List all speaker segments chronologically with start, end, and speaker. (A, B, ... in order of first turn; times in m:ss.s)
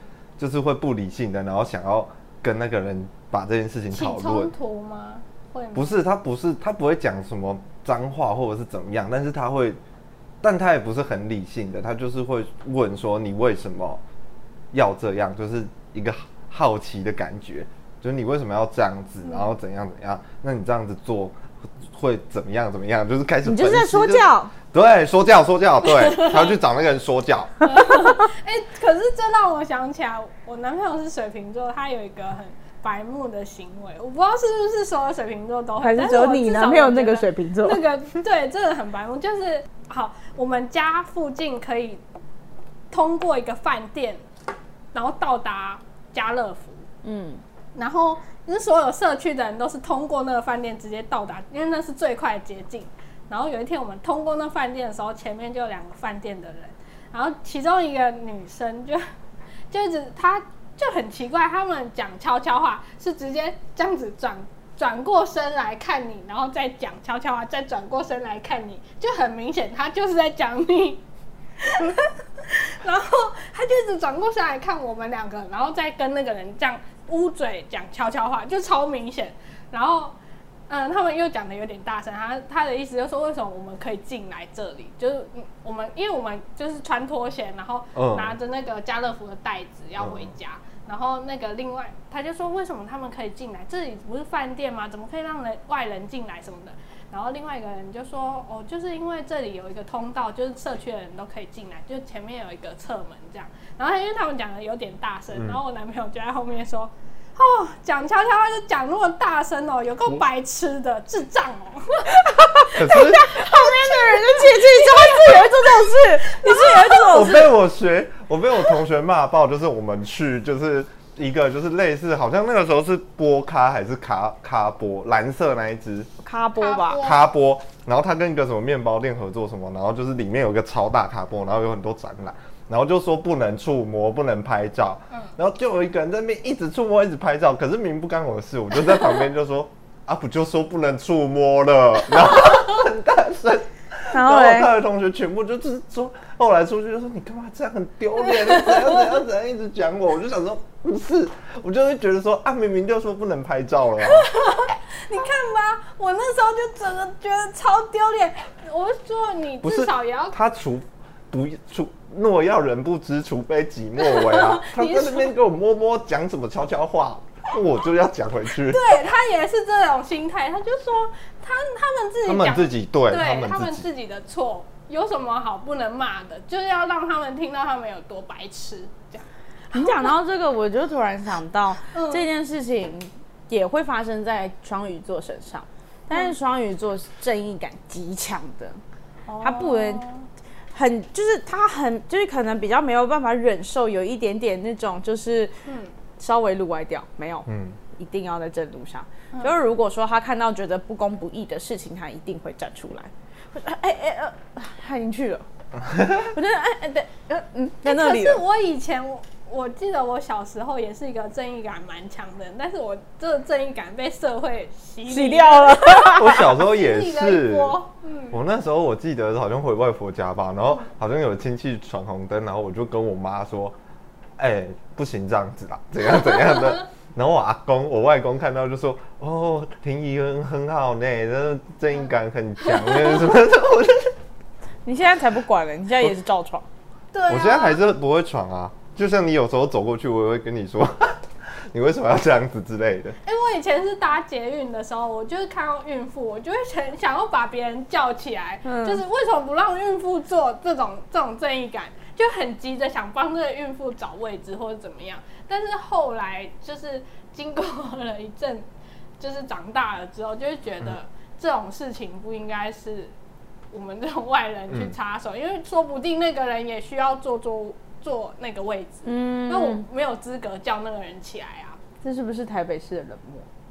0:00.4-0:04.5 A
0:03.9-0:06.0 B
0:05.7-0:09.8 A
0:10.4-0:14.0 A
0:14.7-0:21.4 A
0:19.2-0:19.5 B
0:21.9-0:27.6 A
0:23.4-0:24.5 C
0:26.0-0:26.5 B
0:27.6-0:42.0 B
0:35.8-0:37.8 C
0:42.9-0:44.2 B
0:44.9-0:46.8 B
0:47.0-0:47.4 C
0:47.8-0:59.0 B
0:59.7-1:11.0 B
1:11.6-1:20.2 B
1:20.7-1:57.0 B
1:28.0-1:28.4 A
1:30.0-1:30.3 A
1:45.4-1:45.6 A
1:52.4-1:57.5 C
1:52.8-1:53.2 A
1:57.1-2:06.1 A
2:06.2-2:07.0 C
2:06.6-2:07.2 B
2:07.0-2:34.3 A
2:24.1-2:24.7 C
2:28.5-2:28.9 B
2:34.0-2:40.4 B
2:39.6-2:48.8 A
2:44.0-2:45.3 B
2:48.6-3:00.1 B
2:52.2-2:53.9 A
2:59.7-3:08.8 C
3:01.9-3:02.2 B
3:09.3-3:10.2 B
3:09.4-3:10.1 C
3:10.7-3:15.6 C
3:15.7-3:15.9 B
3:16.2-3:25.4 C
3:17.5-3:17.8 A
3:26.0-3:28.4 C
3:27.8-3:38.4 B
3:35.1-3:36.5 C
3:36.1-3:37.8 A
3:38.3-3:43.8 A
3:44.4-3:54.1 A
3:54.8-3:56.7 C
3:57.1-3:57.8 B
3:57.3-4:03.2 A
4:03.2-4:18.7 B
4:08.6-4:09.0 C
4:19.2-4:23.1 B
4:23.7-4:31.8 B
4:29.0-4:29.8 C
4:32.0-4:33.5 C